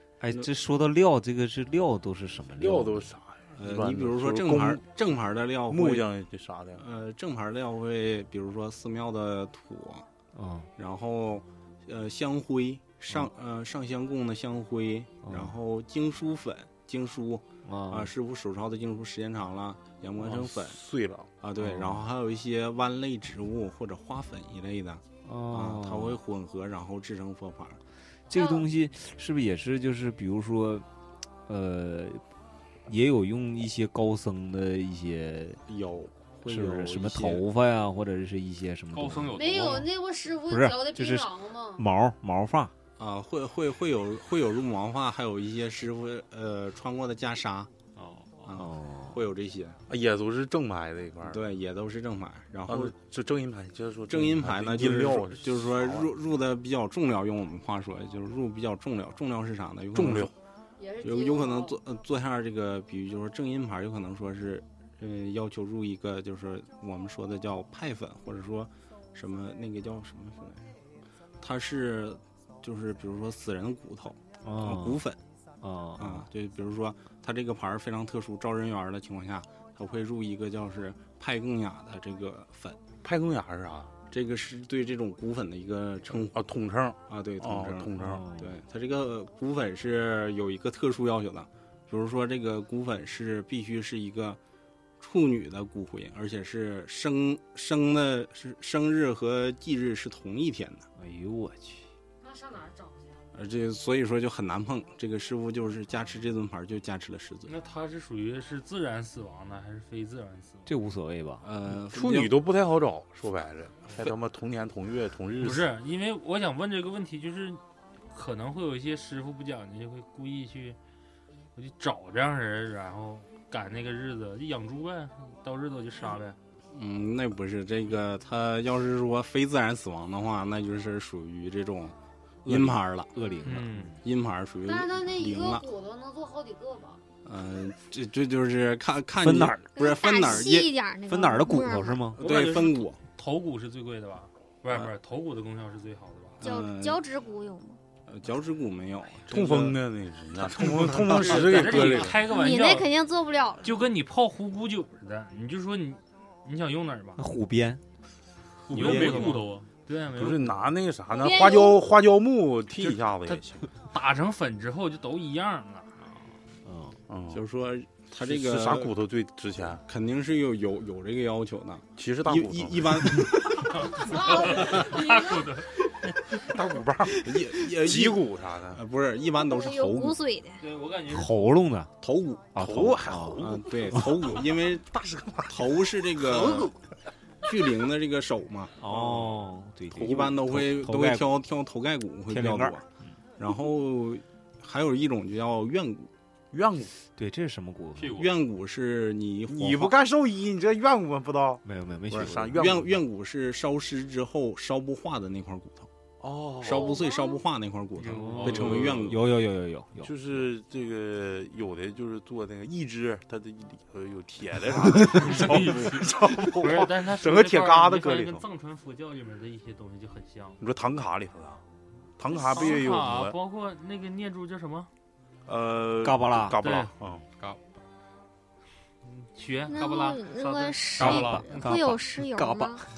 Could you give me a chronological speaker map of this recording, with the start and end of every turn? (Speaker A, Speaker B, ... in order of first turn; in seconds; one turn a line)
Speaker A: 0.2-3.1
Speaker B: 2.5-4.8
Speaker C: 3.6-6.1
Speaker B: 5.7-6.8
Speaker C: 6.8-10.1
Speaker A: 10.3-10.7
Speaker C: 10.8-20.8
Speaker A: 15.2-15.5
Speaker A: 17.6-18.1
Speaker B: 20.2-21.3
Speaker C: 21.4-27.8
Speaker A: 21.6-22.1
Speaker A: 25.2-26.2
Speaker A: 28.3-30.9
Speaker D: 28.3-28.7
Speaker A: 31.5-32.2
Speaker A: 32.9-35.6
Speaker C: 35.7-37.4
Speaker A: 36.5-39.3
Speaker E: 38.9-39.9
Speaker D: 39.3-41.9
Speaker A: 40.5-42.7
Speaker C: 43.0-47.7
Speaker E: 48.0-48.4
Speaker C: 48.5-49.8
Speaker A: 48.5-49.2
Speaker B: 49.9-51.4
Speaker C: 51.2-52.9
Speaker B: 52.7-56.1
Speaker C: 54.1-60.3
Speaker B: 60.0-60.3
Speaker D: 60.8-61.8
Speaker C: 61.0-70.7
Speaker C: 71.4-75.2
Speaker A: 74.4-75.0
Speaker A: 75.6-76.2
Speaker C: 76.0-82.8
Speaker B: 83.0-83.9
Speaker C: 84.1-86.4
Speaker B: 86.3-88.2
Speaker C: 87.1-94.4
Speaker A: 88.0-88.5
Speaker C: 95.0-100.9
Speaker A: 101.0-101.9
Speaker D: 102.2-103.2
Speaker C: 103.3-107.5
Speaker F: 107.5-110.7
Speaker A: 110.7-111.5
Speaker C: 111.4-112.3
Speaker B: 111.8-115.7
Speaker F: 115.4-117.6
Speaker F: 118.1-120.8
Speaker F: 121.6-126.4
Speaker C: 126.7-133.2
Speaker A: 132.4-134.0
Speaker F: 133.4-133.9
Speaker C: 134.0-135.7
Speaker D: 134.7-137.0
Speaker C: 137.2-140.7
Speaker A: 139.2-139.7
Speaker G: 139.8-142.1
Speaker A: 141.1-142.2
Speaker C: 142.2-143.0
Speaker F: 142.2-146.4
Speaker C: 146.4-147.0
Speaker G: 146.4-147.8
Speaker C: 148.1-149.8
Speaker B: 149.3-152.2
Speaker C: 150.3-151.8
Speaker F: 151.1-152.9
Speaker G: 152.2-153.7
Speaker F: 153.6-157.2
Speaker A: 157.2-157.8
Speaker E: 158.7-159.7
Speaker F: 158.7-160.7
Speaker A: 158.7-159.4
Speaker B: 158.8-159.3
Speaker B: 160.2-163.7
Speaker G: 161.1-161.8
Speaker F: 163.9-166.1
Speaker A: 166.6-167.0
Speaker B: 167.1-167.4
Speaker C: 167.3-168.9
Speaker B: 168.2-169.8
Speaker C: 169.8-174.8
Speaker B: 172.0-173.0
Speaker D: 174.0-175.5
Speaker F: 174.5-175.7
Speaker B: 176.3-178.8
Speaker C: 177.2-180.2
Speaker G: 179.4-180.6
Speaker F: 180.6-181.5
Speaker A: 181.1-181.9
Speaker C: 182.0-182.8
Speaker A: 182.6-184.1
Speaker B: 182.6-185.6
Speaker C: 183.3-184.8
Speaker C: 185.5-186.7
Speaker B: 186.2-186.7
Speaker C: 187.4-189.2
Speaker A: 188.8-191.3
Speaker B: 188.9-189.3
Speaker C: 189.9-192.8
Speaker A: 192.3-192.8
Speaker C: 193.4-196.1
Speaker B: 196.5-196.9
Speaker A: 197.2-198.2
Speaker E: 198.0-198.3
Speaker C: 198.1-199.9
Speaker B: 199.5-202.9
Speaker A: 201.7-202.7
Speaker C: 202.1-205.9
Speaker B: 206.2-207.0
Speaker C: 206.6-209.2
Speaker D: 206.7-207.4
Speaker E: 208.0-209.0
Speaker A: 208.1-210.1
Speaker B: 208.6-209.2
Speaker B: 210.0-218.4
Speaker F: 215.2-215.8
Speaker E: 215.4-216.0
Speaker F: 216.4-220.6
Speaker B: 220.6-221.6
Speaker B: 222.2-223.3
Speaker F: 222.3-224.9
Speaker B: 225.5-227.2
Speaker A: 226.0-226.6
Speaker F: 226.6-226.9
Speaker F: 229.1-231.6
Speaker G: 229.7-232.8
Speaker A: 231.0-232.8
Speaker E: 231.0-231.4